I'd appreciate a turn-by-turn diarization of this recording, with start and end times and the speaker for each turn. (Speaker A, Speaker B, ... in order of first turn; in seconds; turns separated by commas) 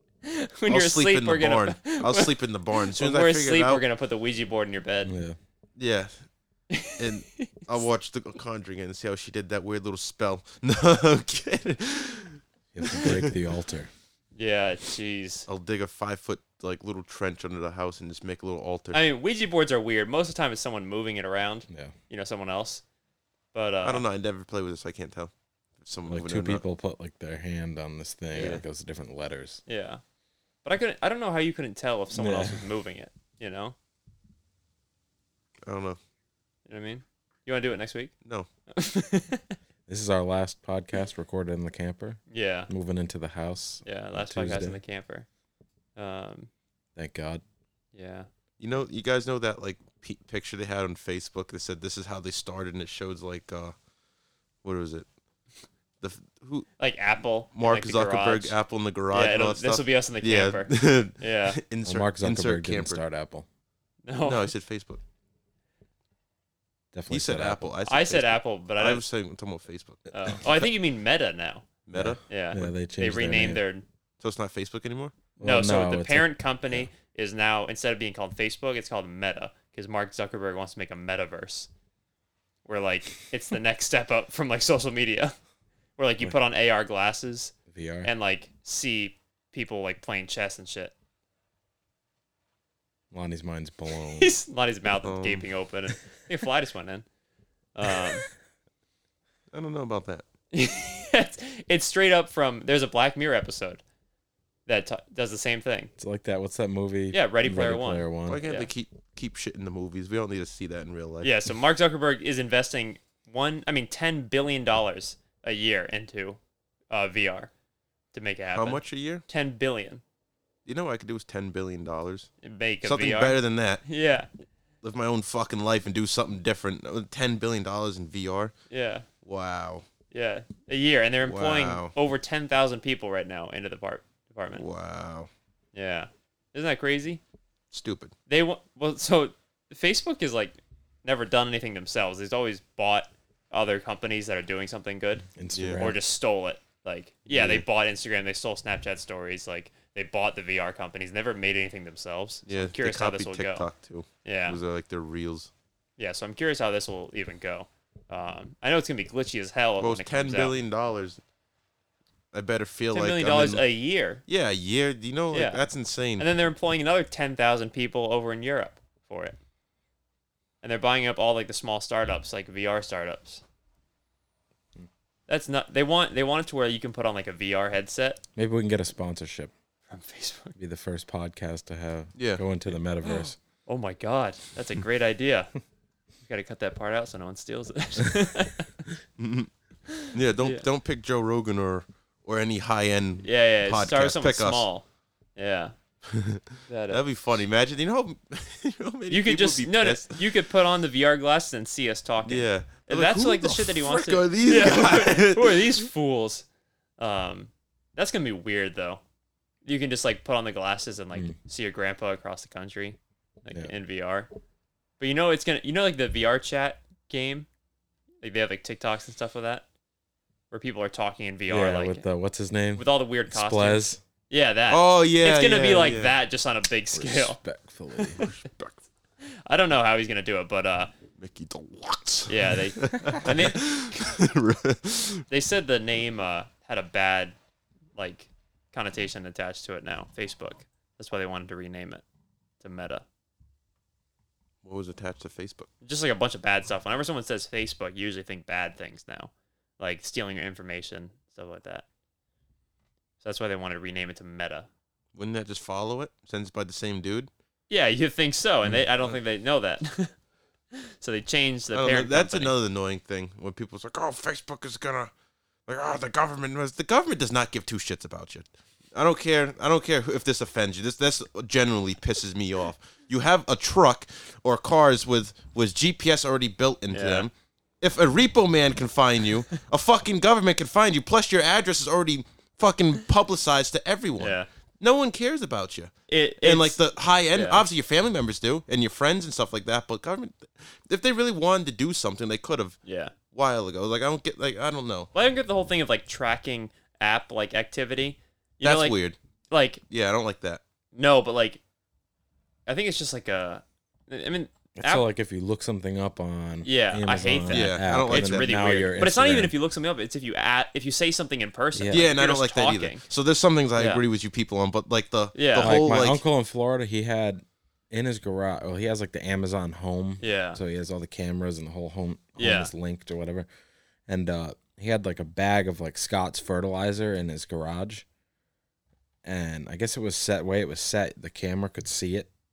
Speaker A: 0.2-5.1, Speaker B: 0.7-3.8, Speaker C: 5.0-5.4, Speaker B: 5.8-6.2, Speaker A: 6.7-7.7, Speaker B: 7.0-13.3, Speaker C: 12.7-13.9, Speaker A: 14.3-15.5, Speaker B: 15.5-19.0, Speaker A: 18.9-22.8, Speaker C: 21.7-21.9, Speaker A: 23.5-24.0, Speaker B: 23.8-26.6, Speaker C: 26.1-29.6, Speaker B: 28.3-28.6, Speaker A: 28.3-28.6, Speaker A: 29.7-30.0, Speaker A: 30.6-33.7, Speaker C: 32.1-32.6, Speaker B: 35.6-36.0, Speaker A: 36.7-38.1, Speaker A: 38.7-39.6, Speaker C: 39.9-44.8, Speaker A: 42.3-42.7, Speaker A: 43.8-45.2, Speaker A: 46.0-46.5, Speaker C: 47.0-47.4, Speaker A: 47.9-48.3, Speaker B: 48.6-53.7, Speaker B: 54.6-55.1, Speaker B: 56.0-56.7, Speaker A: 56.8-58.6, Speaker B: 57.5-63.0, Speaker A: 59.1-61.6, Speaker C: 61.8-63.5, Speaker A: 64.0-64.5, Speaker B: 64.2-65.0, Speaker C: 66.9-67.7, Speaker B: 67.1-70.1, Speaker A: 67.8-69.0, Speaker A: 70.1-71.7, Speaker B: 71.8-72.2, Speaker C: 71.9-73.6, Speaker A: 72.3-73.8, Speaker B: 74.2-75.2, Speaker C: 75.4-76.9, Speaker A: 75.4-81.7, Speaker A: 82.6-85.3, Speaker A: 86.0-90.9, Speaker C: 87.7-88.1, Speaker C: 93.1-94.3, Speaker A: 94.1-97.0, Speaker B: 95.0-95.5, Speaker A: 97.7-98.3, Speaker B: 99.5-100.2, Speaker A: 100.5-103.8, Speaker A: 104.7-105.9, Speaker C: 106.0-108.4, Speaker A: 107.1-108.7, Speaker B: 108.3-111.3, Speaker A: 111.2-116.4, Speaker A: 116.9-117.5, Speaker A: 118.1-120.0, Speaker B: 118.5-119.2, Speaker B: 120.7-122.3, Speaker A: 122.4-124.3, Speaker B: 122.8-123.8, Speaker B: 124.8-128.5, Speaker A: 128.7-129.1, Speaker B: 129.2-129.8, Speaker A: 130.1-134.6, Speaker B: 131.2-131.9, Speaker B: 134.5-135.3, Speaker A: 135.7-137.2, Speaker B: 137.7-138.1, Speaker A: 138.3-145.3, Speaker C: 145.3-146.0, Speaker B: 145.5-145.9, Speaker A: 145.8-153.7, Speaker B: 147.3-147.6, Speaker B: 152.4-155.5, Speaker A: 154.2-154.6, Speaker A: 156.0-160.6, Speaker B: 159.8-161.2, Speaker B: 162.3-163.6, Speaker A: 162.9-164.2, Speaker B: 164.3-166.3, Speaker A: 165.3-165.6, Speaker A: 166.2-169.3, Speaker A: 170.6-173.4, Speaker A: 175.3-178.2, Speaker C: 178.3-179.5, Speaker A: 179.9-180.5, Speaker C: 180.6-183.4, Speaker B: 182.2-182.4, Speaker A: 183.0-185.5, Speaker A: 186.2-188.8, Speaker B: 189.2-189.5, Speaker A: 189.9-190.6, Speaker B: 190.1-194.7, Speaker A: 193.2-194.8, Speaker A: 195.3-195.7, Speaker B: 196.1-200.2, Speaker A: 196.7-197.0, Speaker A: 199.1-206.4, Speaker B: 202.2-205.8, Speaker A: 207.0-209.0, Speaker A: 209.6-214.3, Speaker A: 215.0-217.5, Speaker A: 218.2-219.7, Speaker A: 220.5-222.1, Speaker C: 221.5-224.0, Speaker A: 222.8-227.4, Speaker B: 224.7-226.2, Speaker C: 226.9-228.3, Speaker A: 227.9-228.3, Speaker B: 228.2-228.8, Speaker A: 229.4-230.9, Speaker B: 231.2-235.2, Speaker A: 232.3-234.2, Speaker A: 235.3-237.3, Speaker A: 237.9-242.0, Speaker A: 242.6-243.0, Speaker B: 244.6-245.7, Speaker A: 245.8-251.8, Speaker A: 253.2-254.7, Speaker B: 255.1-257.3, Speaker A: 257.7-260.1, Speaker A: 260.7-262.5, Speaker B: 261.7-265.1, Speaker B: 265.7-292.8, Speaker A: 276.9-277.3, Speaker A: 284.2-284.5, Speaker A: 286.1-287.6, Speaker A: 292.8-293.1, Speaker B: 293.3-295.1, Speaker A: 295.1-299.0, Speaker B: 298.6-299.2, Speaker A: 299.5-299.8, Speaker B: 299.9-300.6, Speaker A: 300.9-301.6, Speaker A: 302.7-305.1, Speaker C: 304.8-309.5, Speaker A: 306.6-313.1, Speaker B: 307.5-308.6, Speaker C: 311.7-312.1, Speaker B: 311.9-316.2, Speaker A: 313.8-314.0, Speaker A: 315.3-315.8, Speaker C: 315.6-323.5, Speaker A: 320.2-320.6, Speaker A: 322.4-322.7, Speaker C: 324.1-328.0, Speaker C: 329.2-332.3